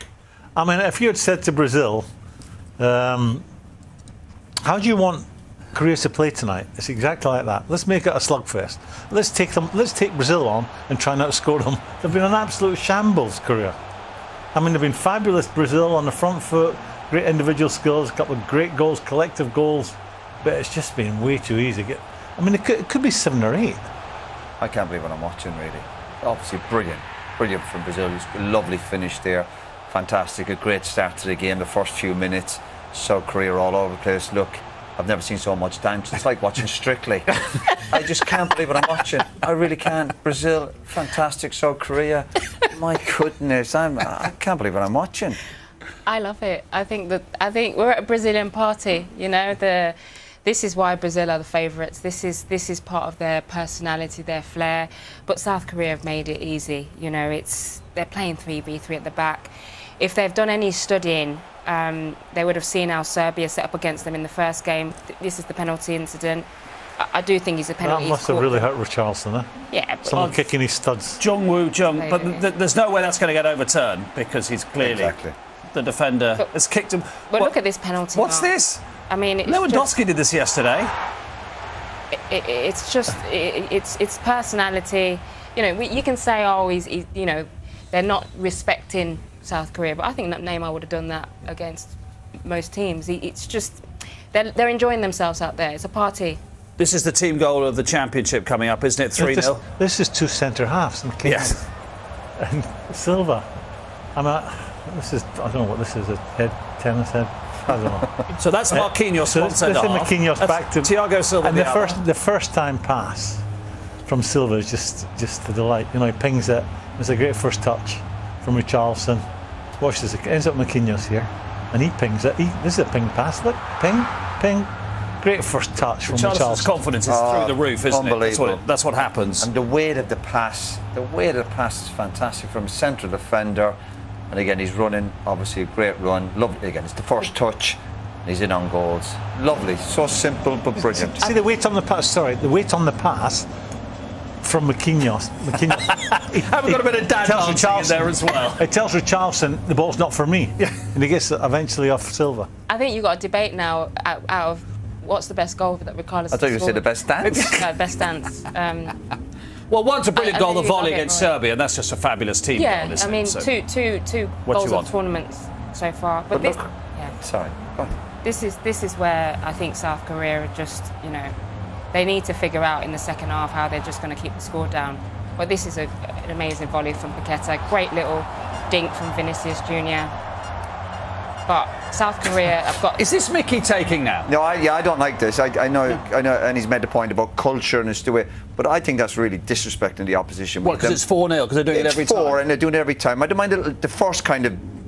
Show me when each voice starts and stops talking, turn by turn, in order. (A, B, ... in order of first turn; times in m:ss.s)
0:00.6-0:02.0 A
0:02.8-0:03.4 A
0:04.6-0:13.8 A
0:14.5-0:23.9 A
0:24.6-0:45.4 B
0:46.0-1:06.5 C
1:07.0-1:08.7 C
1:07.8-1:09.5 A
1:09.7-1:10.2 C
1:10.0-1:11.2 A
1:10.1-1:10.5 D
1:11.2-1:15.1 D
1:11.9-1:12.5 C
1:14.8-1:15.3 B
1:15.7-1:17.5 D
1:17.3-1:18.5 C
1:18.1-1:18.8 D
1:19.1-1:19.9 C
1:19.4-1:20.9 D
1:22.1-1:36.4 C
1:36.8-1:39.6 D
1:39.2-1:41.7 A
1:41.2-1:41.6 D
1:42.4-1:43.4 A
1:44.1-1:48.1 A
1:48.4-1:52.0 D
1:48.7-1:53.4 A
1:54.1-1:59.2 A
1:59.8-2:06.8 A
2:06.1-2:09.5 D
2:07.1-2:08.6 B
2:09.4-2:13.8 B
2:14.3-2:21.2 B
2:20.8-2:23.5 A
2:24.4-2:32.5 A
2:25.7-2:28.6 D
2:32.7-2:38.9 C
2:36.3-2:37.7 B
2:39.7-2:43.5 D
2:40.1-2:41.3 C
2:42.5-2:47.2 C
2:44.5-2:44.9 D
2:46.3-2:46.6 B
2:47.2-2:47.9 B
2:48.2-2:51.3 C
2:51.9-3:00.1 C
3:01.4-3:03.0 C
3:03.0-3:04.3 D
3:04.3-3:11.0 B
3:10.6-3:12.4 D
3:11.7-3:14.7 B